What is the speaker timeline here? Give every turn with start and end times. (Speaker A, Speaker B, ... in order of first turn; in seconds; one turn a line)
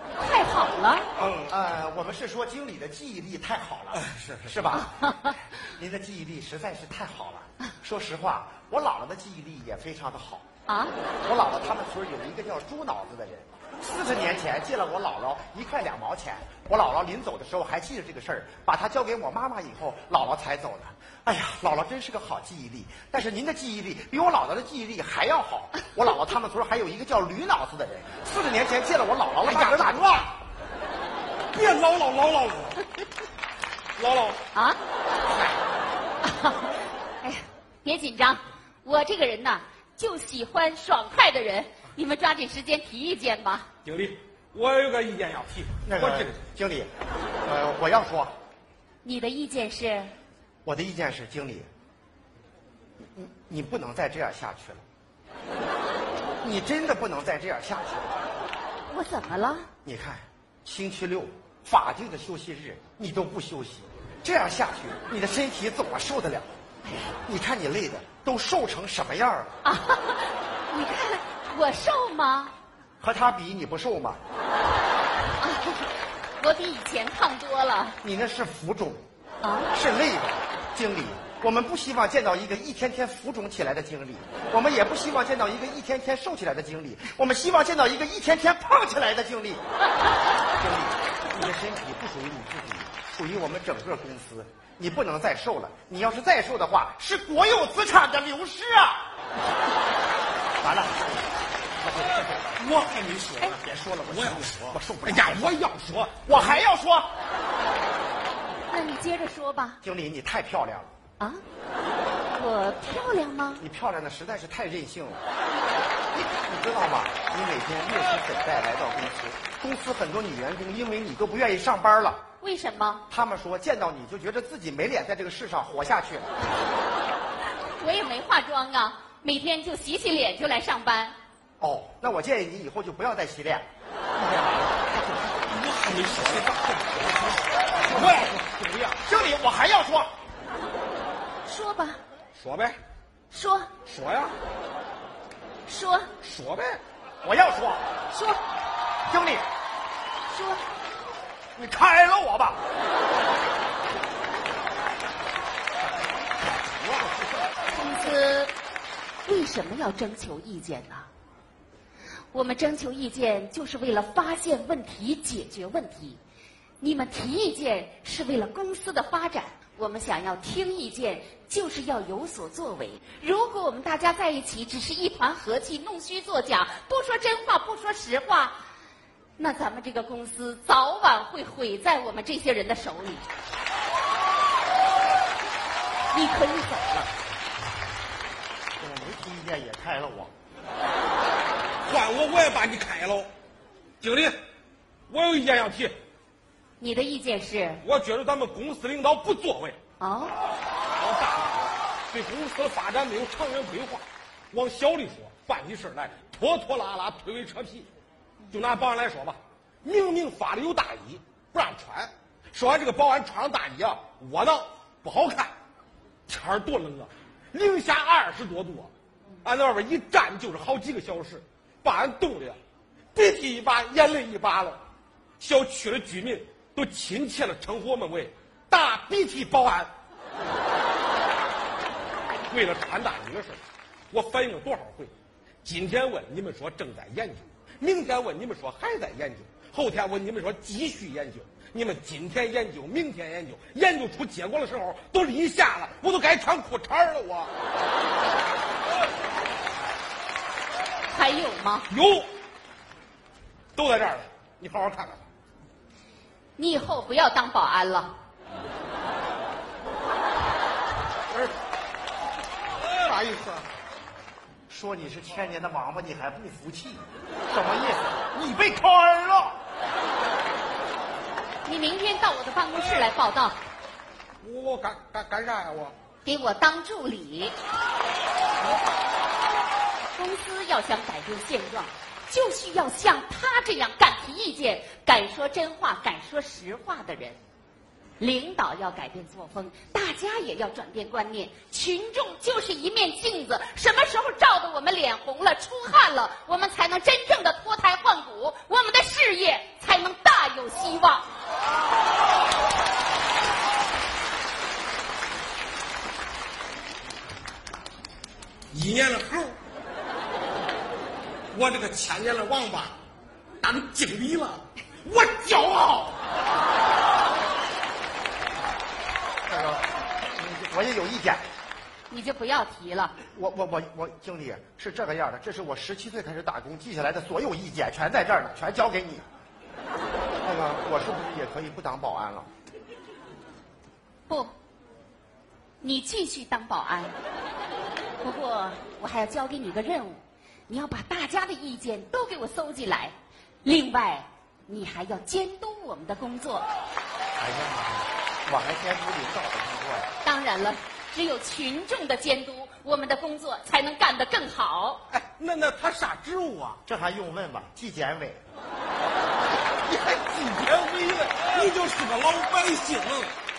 Speaker A: 0.2-1.1
Speaker B: 1.2-1.5
Speaker C: 1.4-10.4
Speaker B: 3.9-4.5
Speaker A: 4.7-5.3
Speaker A: 10.7-10.9
Speaker C: 11.2-30.1
Speaker B: 29.4-30.3
Speaker B: 31.5-32.9
Speaker B: 34.0-34.4
Speaker A: 34.5-34.8
Speaker A: 36.2-43.7
Speaker B: 43.8-46.4
Speaker C: 45.8-46.9
Speaker C: 47.4-48.3
Speaker A: 49.0-50.1
Speaker C: 50.6-51.7
Speaker C: 53.0-54.8
Speaker C: 56.4-58.2
Speaker A: 58.9-59.7
Speaker C: 59.8-66.5
Speaker A: 66.8-67.1
Speaker C: 67.2-69.6
Speaker A: 69.6-72.5
Speaker C: 73.0-74.2
Speaker A: 75.4-78.0
Speaker C: 78.0-79.0
Speaker A: 79.4-79.7
Speaker C: 79.7-89.6
Speaker C: 90.5-99.1
Speaker C: 100.6-101.3
Speaker C: 101.8-105.5
Speaker B: 102.6-106.6
Speaker C: 106.2-107.2
Speaker A: 108.7-109.8
Speaker C: 109.8-110.9
Speaker A: 112.3-113.6
Speaker C: 113.6-115.2
Speaker C: 116.1-122.2
Speaker A: 122.4-123.0
Speaker C: 123.1-126.3
Speaker A: 127.8-131.2
Speaker C: 131.6-133.7
Speaker C: 134.2-134.9
Speaker B: 135.4-139.0
Speaker C: 137.8-138.3
Speaker C: 139.0-140.1
Speaker A: 141.4-142.0
Speaker B: 142.3-142.8
Speaker A: 143.3-143.7
Speaker B: 143.8-144.3
Speaker A: 145.7-146.1
Speaker B: 146.2-146.8
Speaker C: 147.2-147.8
Speaker A: 148.1-148.4
Speaker C: 149.1-149.4
Speaker A: 150.3-150.6
Speaker C: 151.6-152.6
Speaker A: 157.7-158.5
Speaker A: 159.2-161.1
Speaker A: 162.3-166.2
Speaker A: 166.8-178.6
Speaker A: 179.4-183.3
Speaker A: 186.1-187.1
Speaker C: 188.8-190.3
Speaker B: 191.9-193.3
Speaker B: 194.0-194.4
Speaker B: 195.1-195.9
Speaker A: 196.8-197.8
Speaker B: 197.8-199.8
Speaker A: 200.0-200.4
Speaker B: 200.9-207.9
Speaker B: 208.5-215.5
Speaker B: 216.3-218.9
Speaker B: 219.4-222.6
Speaker B: 223.1-224.8
Speaker B: 225.4-229.9
Speaker B: 232.5-233.6
Speaker B: 234.1-235.1
Speaker B: 235.6-247.5
Speaker A: 251.1-251.9
Speaker B: 251.9-252.3
Speaker B: 253.8-255.2
Speaker A: 256.6-258.2
Speaker B: 262.9-263.7
Speaker C: 264.7-269.6
Speaker A: 271.6-273.6
Speaker B: 274.4-275.9
Speaker A: 276.2-277.6
Speaker A: 280.1-287.4
Speaker A: 288.2-301.3
Speaker B: 308.7-309.6
Speaker B: 311.5-312.9
Speaker B: 313.6-316.2
Speaker C: 319.5-321.5
Speaker A: 322.1-323.2
Speaker C: 323.3-329.2
Speaker C: 330.4-332.5
Speaker A: 334.3-334.5
Speaker A: 335.8-337.1
Speaker A: 338.2-346.6
Speaker C: 347.4-350.1
Speaker A: 350.2-355.0
Speaker B: 355.1-356.8
Speaker C: 356.9-358.4
Speaker B: 359.8-363.3